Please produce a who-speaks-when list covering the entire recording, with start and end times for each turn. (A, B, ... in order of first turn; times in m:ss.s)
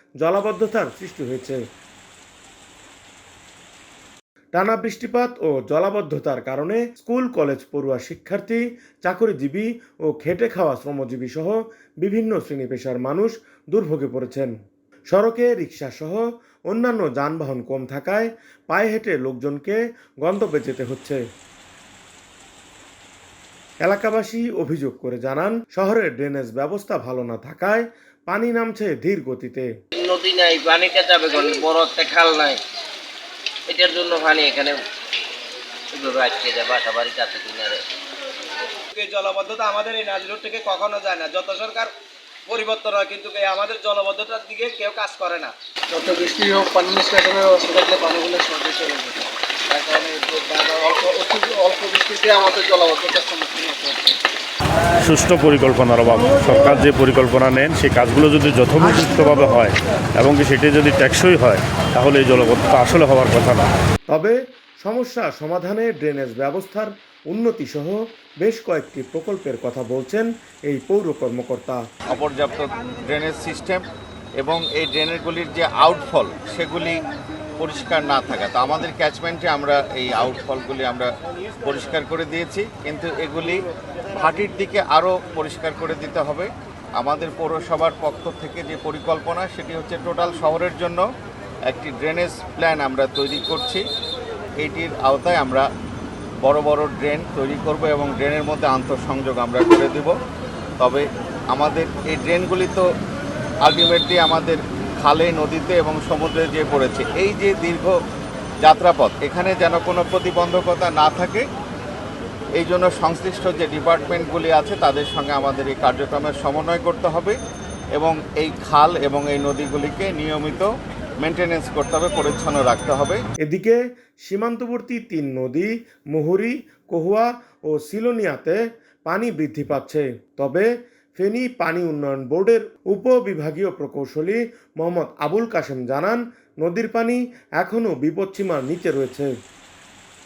0:00.2-0:01.6 A
0:04.6-0:14.5 A
0:15.1-0:21.2 A
0:23.8-0:29.7 A
0:30.0-0:32.6 B
0:33.7-0:34.8 B
0:35.9-0:37.8 B
0:38.9-0:41.9 C
0:42.4-0:45.5 C
0:45.9-0:54.2 D
0:55.0-1:03.7 E
1:04.1-1:11.8 A
1:12.1-1:13.8 F
1:14.4-1:16.9 F
1:17.6-1:21.1 F
1:21.6-1:23.6 F
1:24.1-1:31.0 F
1:31.7-1:33.8 F
1:34.6-1:35.7 F
1:36.4-1:40.1 F
1:40.8-1:42.8 F
1:43.6-1:48.0 F
1:48.6-1:51.4 F
1:52.6-1:57.4 F
1:58.0-2:00.7 F
2:01.2-2:03.2 F
2:03.4-2:19.3 A